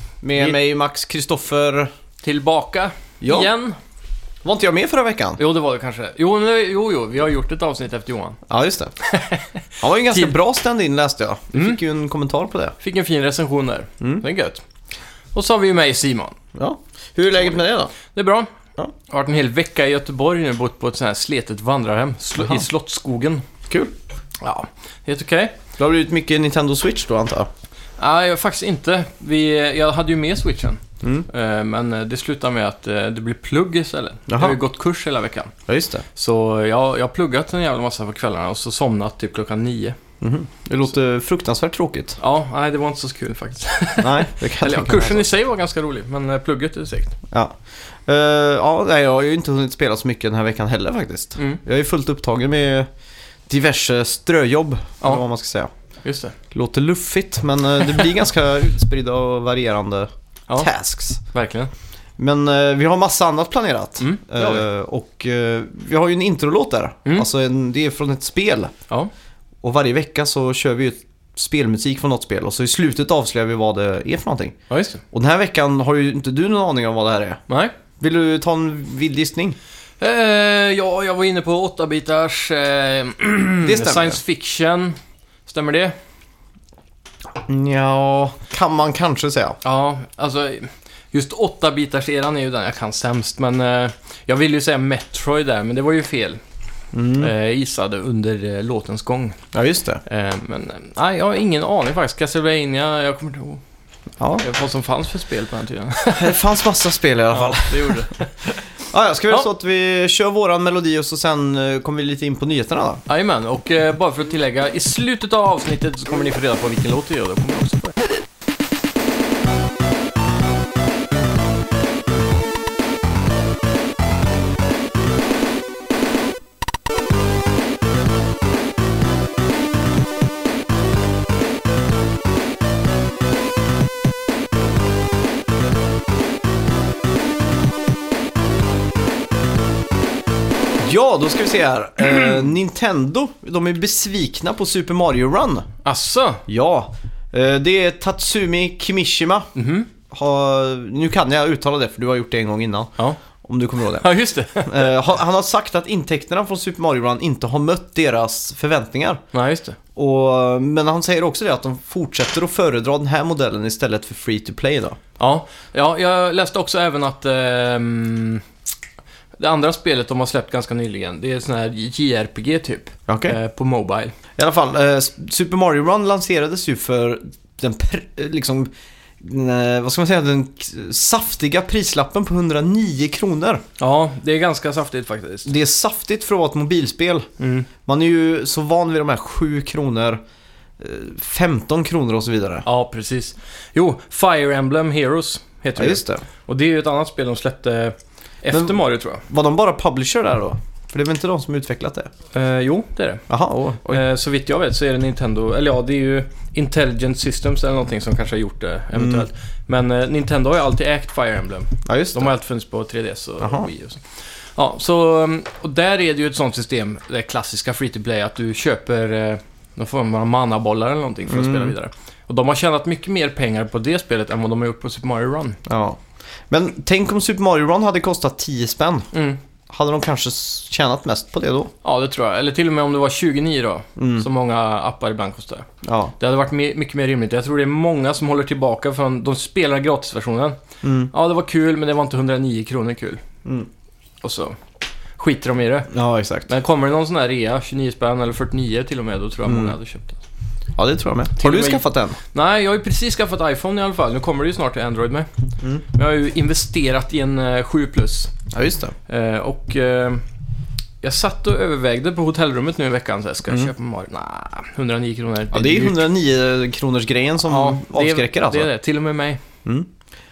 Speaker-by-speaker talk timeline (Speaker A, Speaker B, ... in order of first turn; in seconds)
Speaker A: 0.2-1.9, 3.2-3.5, 4.4-5.4, 8.5-8.9, 9.8-12.8, 16.6-17.9, 23.7-23.9, 25.8-27.5, 31.0-31.3, 34.3-34.6, 35.7-36.0, 40.2-42.2, 44.0-45.3, 47.3-52.9, 53.5-55.7, 56.5-61.2, 62.2-68.7, 69.6-74.6, 75.1-77.4, 78.0-79.6, 83.6-84.2, 87.5-89.6, 96.9-97.3, 99.5-100.0, 106.2-108.1, 108.8-113.0, 140.8-145.7, 146.5-149.5, 150.1-154.1, 154.7-159.2, 159.9-165.0, 173.1-173.4, 174.4-183.6, 185.4-187.3, 187.8-190.2, 190.8-192.7, 195.8-196.2, 198.5-202.1, 203.3-204.0, 208.9-209.2, 211.9-212.3, 213.4-213.7, 221.3-221.7, 225.7-229.1, 229.7-231.7, 234.0-234.3, 235.8-236.1, 240.8-241.1, 245.9-246.5, 249.5-249.8, 250.8-252.2, 258.5-258.9, 265.5-268.7
Speaker B: 2.2-3.8, 5.4-8.4, 9.0-10.3, 12.8-14.6, 15.3-16.4, 18.0-18.5, 19.1-23.4, 24.4-25.6, 28.0-35.5, 36.1-40.0, 42.2-47.2, 56.0-56.4, 61.3-61.7, 64.0-64.7, 74.7-75.0, 77.5-77.7, 80.0-86.0, 89.6-96.4, 97.2-99.4, 100.0-103.6, 104.4-106.4, 107.3-108.6, 113.1-118.0, 145.8-146.4, 149.6-149.9, 154.0-154.9, 159.3-159.8, 165.2-168.4, 169.4-174.2, 183.8-185.5, 187.4-187.7, 192.7-199.2, 202.3-203.3, 203.8-214.0, 214.6-225.6, 229.1-229.4, 231.8-235.7, 236.2-240.6, 241.1-243.2, 244.2-244.6, 245.2-245.9, 246.5-250.2, 251.4-255.3, 255.9-258.3, 259.1-260.2, 261.0-266.1, 267.4-269.4